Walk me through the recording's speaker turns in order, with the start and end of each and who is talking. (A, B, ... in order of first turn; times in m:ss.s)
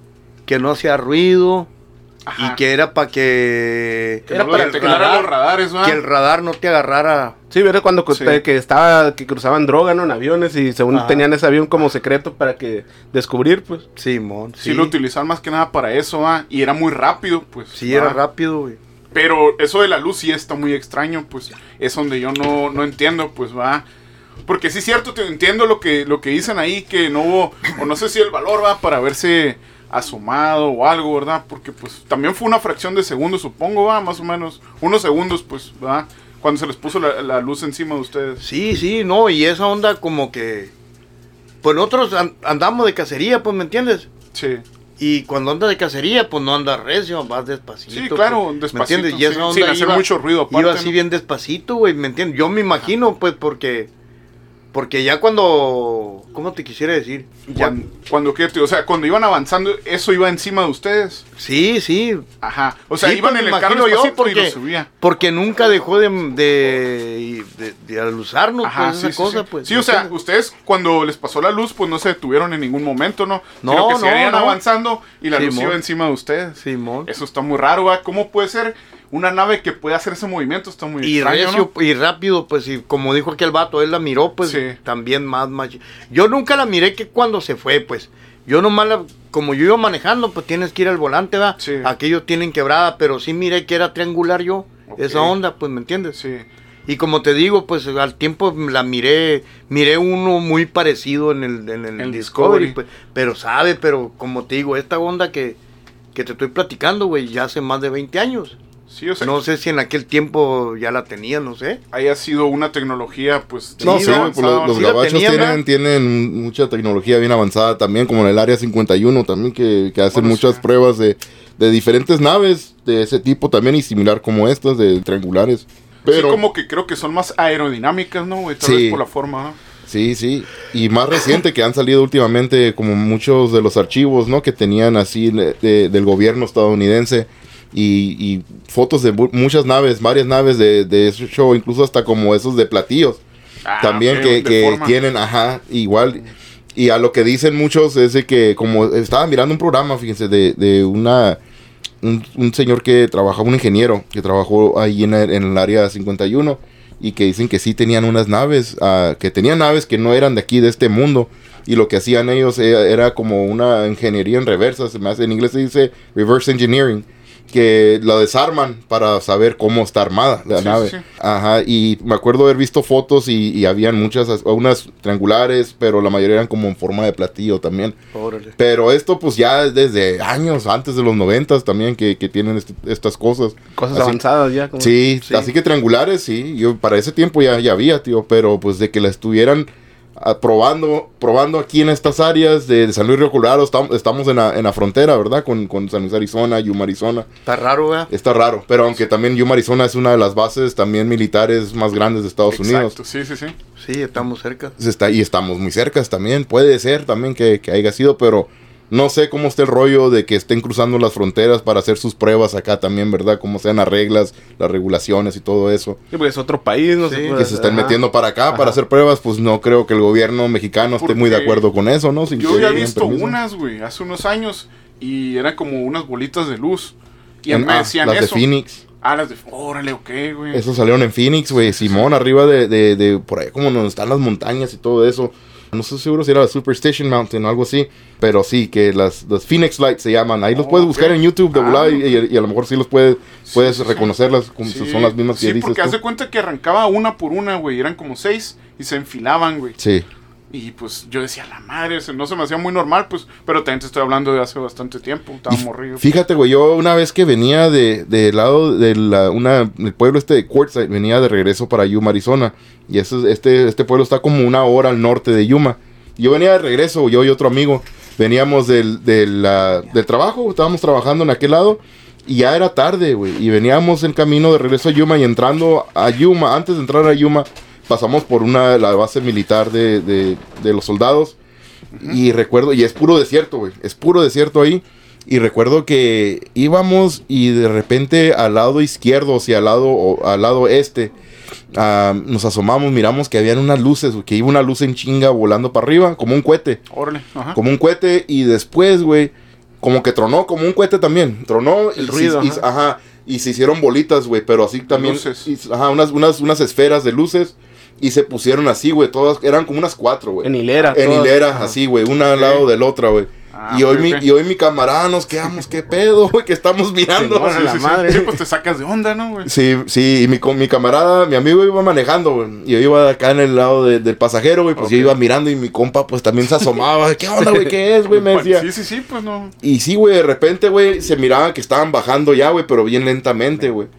0:00.5-0:01.7 A
0:02.2-0:02.6 B
0:02.4-0:07.4 A
0:04.3-0:05.1 C
0:04.3-0:06.0 B
0:07.5-0:13.8 C
0:08.1-0:08.4 B
0:10.9-0:11.3 A
0:14.0-0:14.9 A
0:14.6-0:18.2 B
0:17.8-0:18.8 A
0:19.1-0:23.8 B
0:24.5-0:38.4 B
0:38.4-0:40.7 A
0:41.6-0:44.1 A
0:44.3-0:44.6 B
0:45.0-0:53.9 A
0:47.9-0:50.9 B
0:54.7-0:57.8 A
0:57.5-1:01.2 B
1:01.4-1:02.2 A
1:02.4-1:04.9 B
1:03.0-1:10.1 A
1:08.6-1:21.7 B
1:13.6-1:14.6 A
1:15.3-1:15.8 A
1:16.6-1:17.1 A
1:21.0-1:36.2 A
1:24.4-1:24.8 B
1:31.6-1:31.9 B
1:34.9-1:35.4 B
1:36.1-1:36.5 B
1:36.9-1:45.6 A
1:42.0-1:42.8 B
1:46.1-1:48.6 A
1:48.9-1:49.4 B
1:49.2-1:51.8 A
1:51.9-1:54.8 B
1:53.8-1:55.6 A
1:53.8-2:06.4 D
2:00.1-2:00.6 B
2:06.0-2:09.6 B
2:08.6-2:09.0 D
2:09.9-2:23.2 D
2:23.6-2:25.0 B
2:23.8-2:26.2 D
2:26.8-2:31.4 D
2:32.0-2:58.0 D
2:50.5-2:51.0 B
2:58.1-2:58.5 A
2:58.6-3:04.2 D
3:03.8-3:05.0 C
3:04.8-3:17.3 D
3:05.2-3:05.5 A
3:17.5-3:18.1 A
3:18.1-3:23.0 D
3:22.5-3:23.5 B
3:23.8-3:24.8 A
3:24.8-3:36.0 D
3:36.1-3:38.0 C
3:37.0-3:37.4 A
3:37.3-3:43.4 D
3:41.0-3:41.6 B
3:42.3-3:48.5 B
3:47.5-3:48.8 D
3:49.0-3:50.6 B
3:50.5-4:06.0 D
3:51.6-3:52.1 B
4:00.5-4:02.2 B
4:03.4-4:04.1 B
4:04.6-4:09.8 B
4:09.8-4:10.0 D
4:10.5-4:16.0 B
4:15.5-4:41.4 D
4:41.9-4:42.2 B
4:42.0-4:51.1 D
4:51.7-4:56.8 D
4:56.9-4:57.6 B
4:57.5-5:17.8 D
5:02.0-5:02.6 C
5:04.9-5:05.5 B
5:10.4-5:11.8 C
5:12.3-5:12.7 B
5:13.5-5:14.2 B
5:17.2-5:18.4 C
5:17.4-5:19.5 B
5:19.4-5:28.7 D
5:24.8-5:25.2 B
5:28.1-5:29.5 B
5:29.6-5:33.9 D